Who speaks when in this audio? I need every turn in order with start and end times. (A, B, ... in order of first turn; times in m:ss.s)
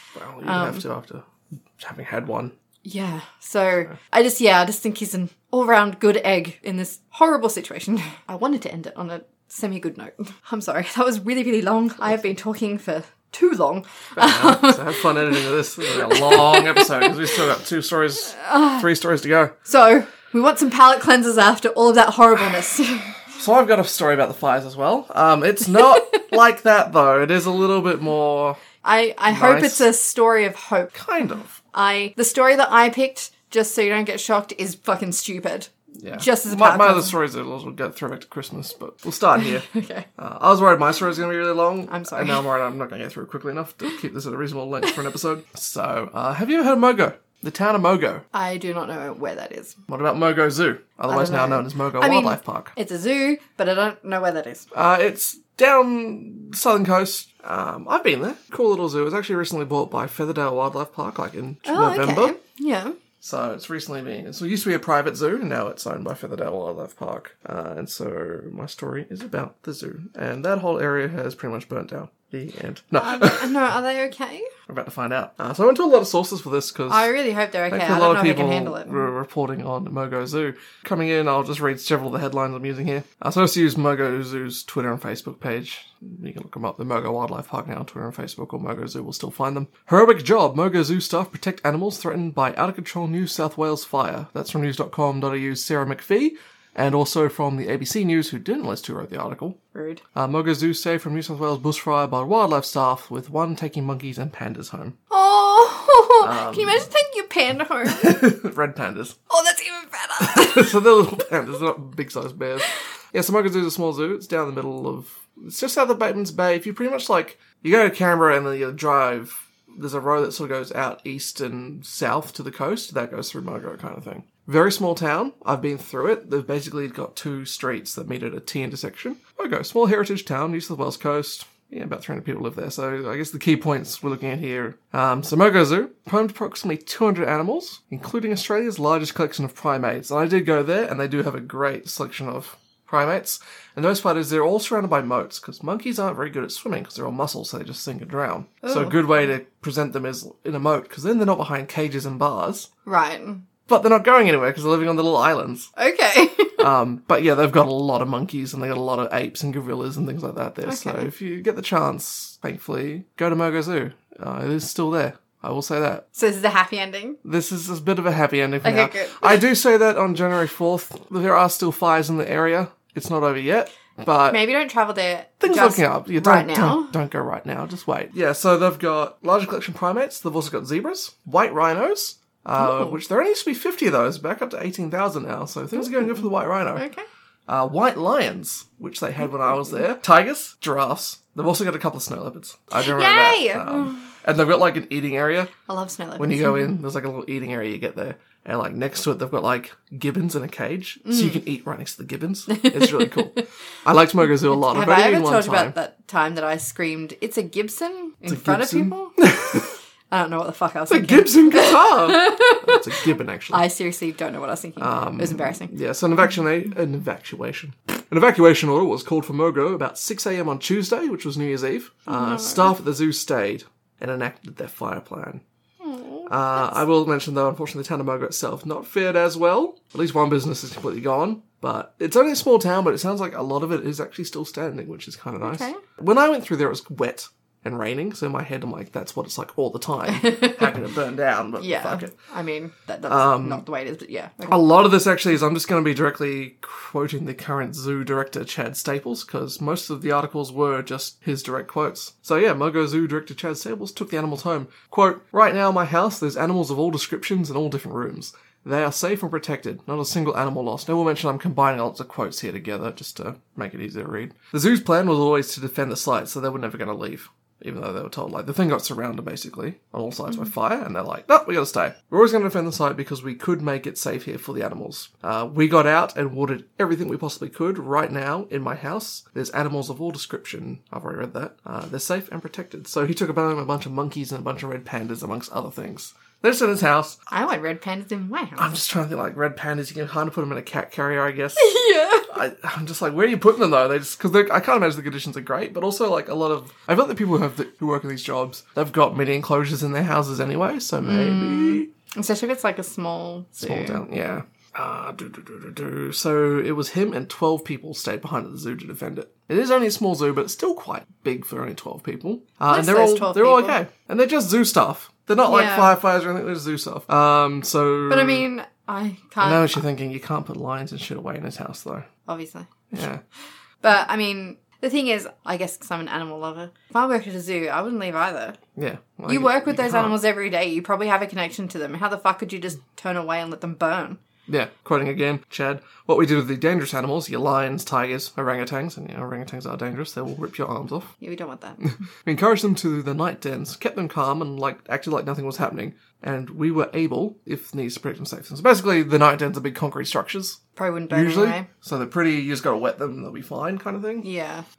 0:00.1-0:02.5 A
0:00.4-0:00.8 B
0:02.8-0:17.3 B
0:14.2-0:19.6 A
0:18.4-0:18.8 B
0:19.6-0:23.2 B
0:23.3-0:28.6 A
0:28.8-0:37.1 B
0:29.3-0:29.9 A
0:30.9-0:31.6 A
0:36.0-0:48.2 A
0:39.4-0:40.1 B
0:41.9-0:42.4 B
0:48.3-0:49.8 B
0:49.9-0:52.7 A
0:51.1-0:54.7 B
0:54.7-1:02.3 A
1:01.6-1:03.0 B
1:03.2-1:13.5 A
1:13.0-1:14.5 B
1:14.7-1:17.1 A
1:16.9-1:19.0 B
1:17.7-1:39.6 A
1:39.7-1:40.0 B
1:40.1-1:45.0 A
1:45.1-1:48.2 B
1:46.2-1:46.9 A
1:47.8-1:49.2 A
1:49.3-1:50.8 B
1:50.2-2:32.7 A
2:28.6-2:29.0 B
2:32.8-2:33.4 B
2:33.7-2:35.7 A
2:35.8-2:36.6 B
2:36.6-2:46.0 A
2:40.6-2:41.1 B
2:46.1-2:47.2 B
2:47.2-2:54.4 A
2:48.6-2:49.4 B
2:54.3-2:56.9 B
2:55.4-3:06.8 A
3:02.6-3:03.0 B
3:05.8-3:06.2 B
3:06.7-3:07.0 B
3:07.5-3:15.5 A
3:12.7-3:14.0 B
3:15.7-3:16.7 B
3:16.2-3:25.7 A
3:21.0-3:21.4 B
3:22.5-3:23.4 B
3:24.5-3:29.2 B
3:28.2-3:29.7 A
3:30.1-3:35.7 B
3:30.9-3:33.6 A
3:34.8-3:45.4 A
3:42.1-3:42.7 B
3:45.8-3:46.8 B
3:46.3-4:02.1 A
3:55.4-3:55.8 B
4:00.1-4:00.7 B
4:01.6-4:04.6 B
4:03.1-4:03.6 A
4:04.4-4:47.2 A
4:47.3-4:48.8 B
4:48.6-5:01.9 A
4:51.6-4:52.3 B
5:01.0-5:04.0 B
5:03.6-5:18.5 A
5:12.7-5:13.8 B
5:15.4-5:15.9 B
5:18.1-5:19.8 B
5:19.4-5:22.1 A
5:22.2-5:22.7 B
5:22.9-5:23.2 A
5:23.8-5:28.6 B
5:28.8-5:30.2 A
5:29.3-5:34.2 B
5:34.5-5:41.1 A
5:41.2-5:42.0 B
5:41.8-5:54.3 A
5:50.8-5:51.7 B
5:54.2-5:54.6 B